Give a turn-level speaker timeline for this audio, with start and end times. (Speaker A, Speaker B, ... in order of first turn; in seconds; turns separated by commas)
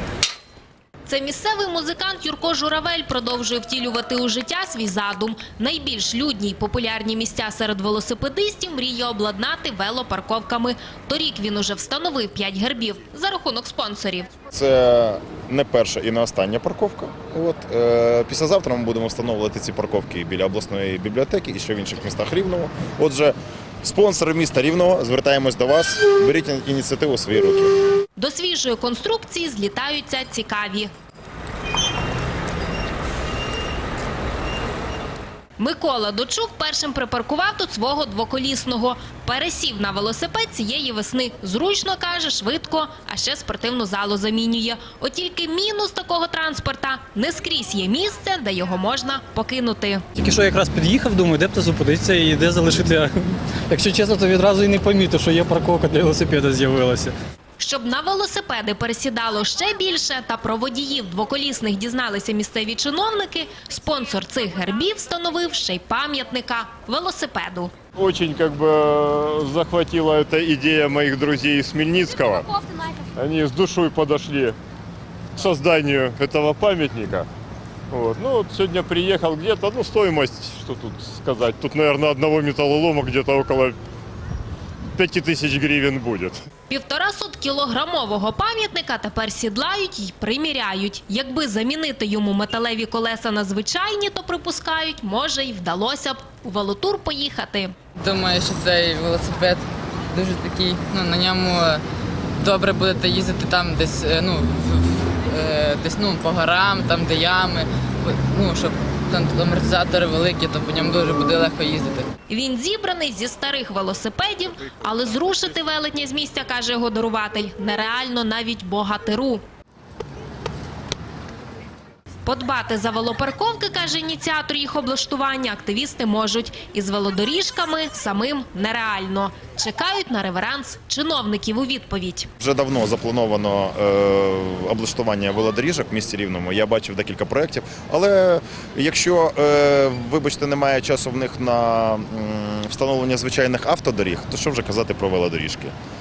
Speaker A: 1.1-14.3, Speaker B: 14.5-27.7, Speaker A: 28.2-30.9, Speaker A: 35.6-50.0, Speaker C: 50.1-57.1, Speaker A: 57.6-67.7, Speaker D: 68.0-72.6, Speaker D: 73.1-74.6, Speaker D: 75.3-77.3, Speaker D: 77.9-83.8, Speaker D: 84.9-86.4, Speaker A: 86.7-97.7, Speaker E: 98.0-101.8, Speaker E: 102.4-112.1, Speaker A: 112.3-119.4, Speaker A: 122.2-132.3, Speaker B: 132.4-145.7